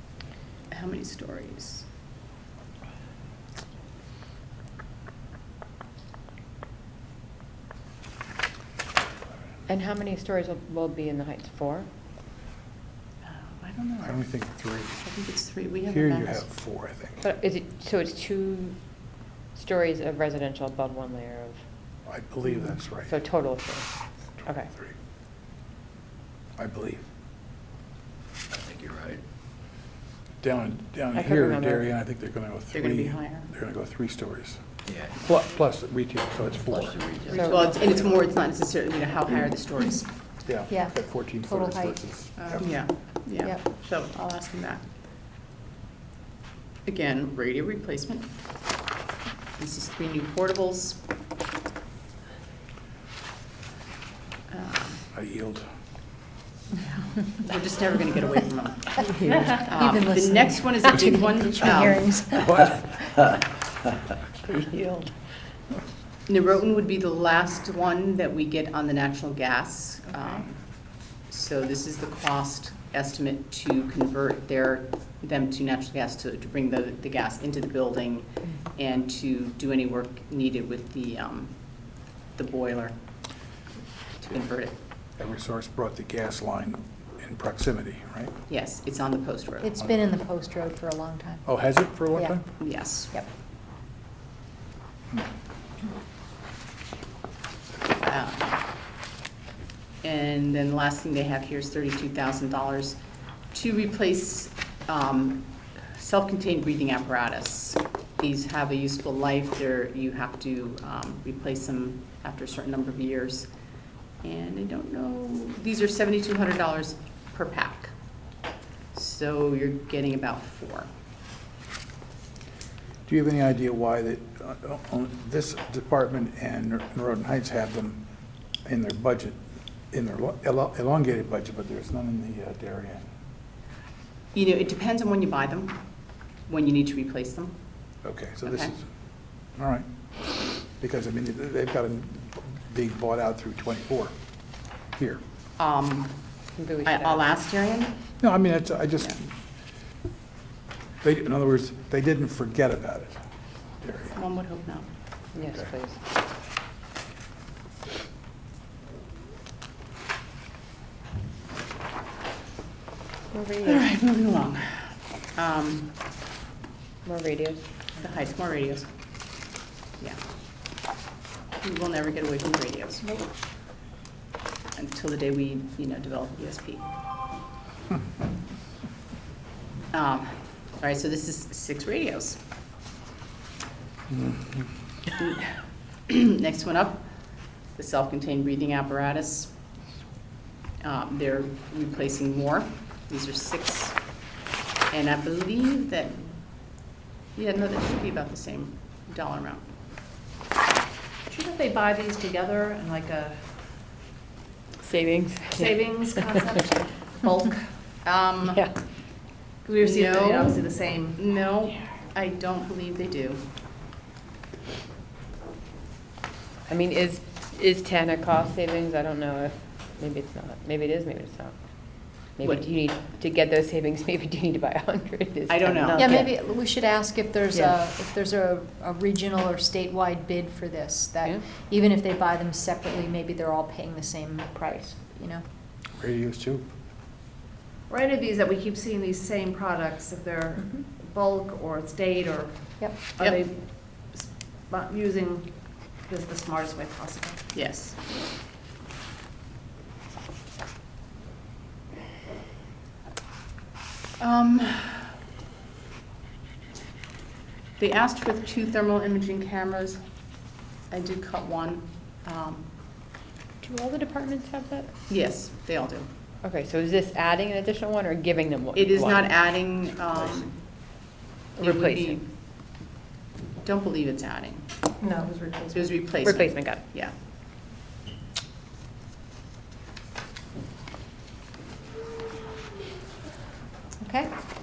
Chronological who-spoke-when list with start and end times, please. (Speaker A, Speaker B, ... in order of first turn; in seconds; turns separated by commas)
Speaker A: 0.7-1.9, Speaker B: 9.7-11.9, Speaker A: 13.2-14.2, Speaker C: 14.0-15.0, Speaker A: 15.0-16.5, Speaker C: 15.9-17.2, Speaker B: 17.2-18.8, Speaker B: 19.5-21.6, Speaker C: 22.1-23.1, Speaker B: 23.0-23.9, Speaker B: 24.4-24.7, Speaker C: 26.6-27.1, Speaker D: 28.5-29.2, Speaker C: 30.4-34.6, Speaker B: 31.1-31.9, Speaker A: 32.7-33.5, Speaker D: 34.9-35.3, Speaker C: 35.2-37.1, Speaker D: 36.7-38.3, Speaker B: 37.3-37.7, Speaker A: 37.3-40.1, Speaker C: 40.4-42.7, Speaker E: 40.7-42.0, Speaker A: 42.4-44.8, Speaker A: 46.9-48.3, Speaker A: 49.6-51.0, Speaker A: 54.5-55.0, Speaker C: 55.1-55.7, Speaker A: 56.8-59.1, Speaker B: 59.2-59.6, Speaker A: 59.6-62.1, Speaker E: 59.6-62.6, Speaker C: 62.5-62.8, Speaker B: 64.4-65.1, Speaker A: 66.3-70.6, Speaker A: 71.3-81.5, Speaker A: 82.3-83.0, Speaker A: 84.2-84.8, Speaker C: 85.2-88.3, Speaker A: 88.5-89.7, Speaker E: 89.6-91.6, Speaker C: 91.5-92.5, Speaker A: 92.6-93.1, Speaker E: 92.9-93.3, Speaker A: 98.0-98.6, Speaker A: 100.0-103.0, Speaker A: 103.5-113.5, Speaker A: 114.2-117.9, Speaker A: 118.9-120.9, Speaker C: 123.1-128.0, Speaker C: 128.7-129.4, Speaker C: 129.9-133.1, Speaker A: 134.3-135.8, Speaker A: 136.5-137.6, Speaker C: 138.0-138.8, Speaker A: 138.4-138.7, Speaker C: 139.6-139.9, Speaker C: 140.8-144.2, Speaker C: 145.0-145.2, Speaker A: 145.6-146.2, Speaker B: 146.6-147.2, Speaker A: 146.8-147.9, Speaker C: 148.2-149.3, Speaker C: 151.0-153.2, Speaker C: 153.8-154.2, Speaker A: 154.1-154.9, Speaker B: 155.3-156.0, Speaker B: 163.3-163.9, Speaker A: 163.7-166.0, Speaker B: 167.0-167.6, Speaker A: 168.0-168.9, Speaker A: 171.6-173.2, Speaker A: 174.8-176.9, Speaker A: 179.9-182.4, Speaker C: 184.1-184.6, Speaker A: 185.2-185.5, Speaker A: 186.1-189.5, Speaker A: 190.8-194.0, Speaker A: 194.9-196.4, Speaker A: 197.3-199.7, Speaker F: 201.3-203.5, Speaker B: 204.8-206.7, Speaker F: 205.6-207.7, Speaker A: 208.0-208.6, Speaker B: 208.5-208.7, Speaker F: 209.6-211.2, Speaker A: 209.8-210.6, Speaker A: 211.2-213.4, Speaker B: 216.7-221.6, Speaker B: 222.1-226.3, Speaker A: 225.5-226.1, Speaker E: 225.9-235.4, Speaker C: 236.0-236.6, Speaker F: 237.9-247.4, Speaker A: 247.5-248.0, Speaker A: 254.2-255.1, Speaker A: 257.8-260.0, Speaker A: 260.9-262.7, Speaker B: 263.6-264.9, Speaker A: 265.1-266.1, Speaker B: 266.4-269.3, Speaker A: 268.8-270.9, Speaker B: 271.6-272.2, Speaker A: 271.6-272.2, Speaker A: 273.6-274.7, Speaker E: 275.0-275.9, Speaker A: 275.7-277.1, Speaker B: 276.2-276.8, Speaker E: 284.0-284.3